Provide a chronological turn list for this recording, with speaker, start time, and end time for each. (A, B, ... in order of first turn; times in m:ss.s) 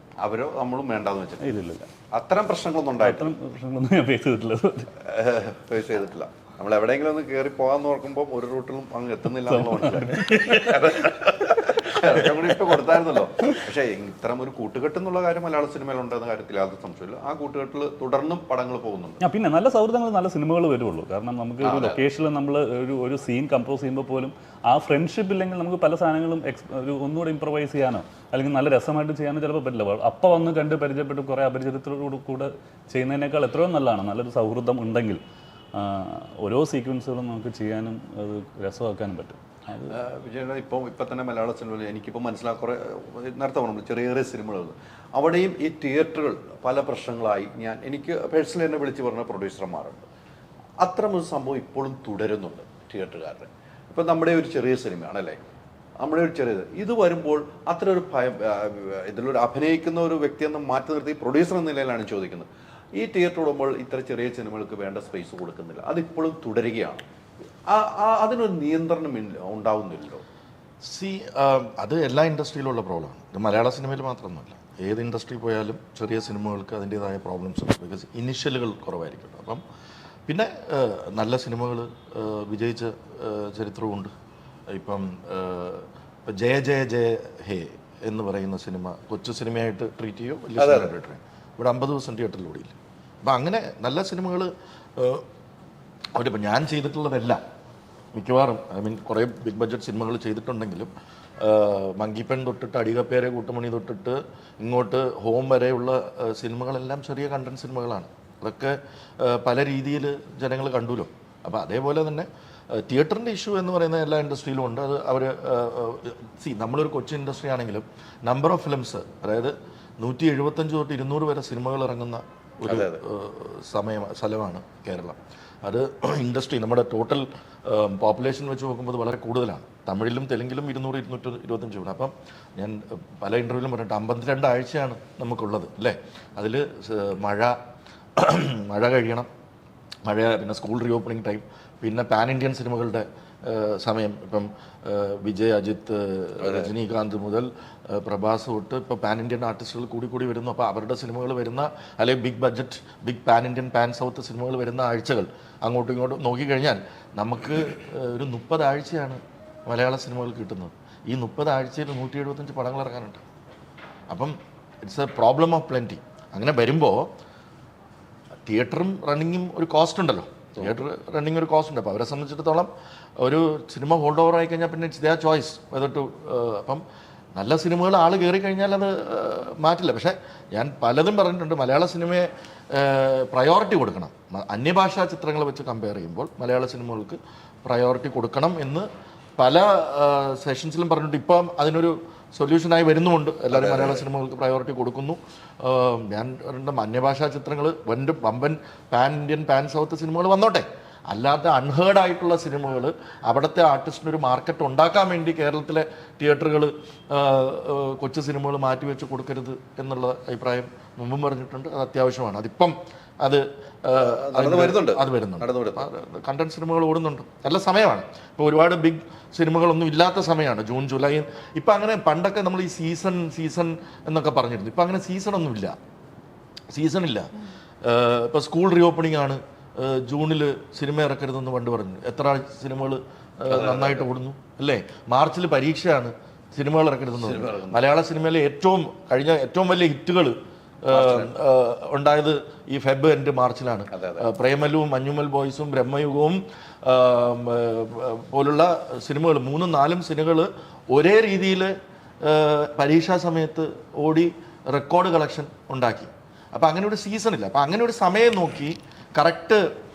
0:00.2-0:01.5 A
0:01.4-0:01.9 B
0:02.1-0:03.3 A
0:03.0-0:04.9 B
0:05.0-0:19.2 A
0:09.4-0:10.9 B
0:19.2-0:35.2 B
0:21.6-0:22.0 A
0:35.7-0:39.9 B
0:39.9-0:50.1 A
0:50.8-0:55.4 A
0:56.0-1:07.0 A
1:07.7-1:10.2 A
1:10.8-1:19.6 C
1:20.3-1:24.1 C
1:24.7-1:35.2 C
1:30.6-1:30.9 A
1:36.1-1:37.4 C
1:38.1-2:17.6 C
2:02.6-2:03.0 A
2:18.2-2:19.3 C
2:20.0-2:43.2 C
2:26.4-2:26.7 A
2:44.1-2:47.1 C
2:48.4-2:56.8 C
2:57.3-3:08.9 C
3:09.4-3:45.8 C
3:13.5-3:14.0 A
3:34.0-3:35.9 A
3:46.7-3:47.3 C
3:47.8-4:19.7 C
3:53.5-3:54.1 A
3:57.1-3:57.8 A
4:00.9-4:01.3 A
4:03.9-4:04.3 A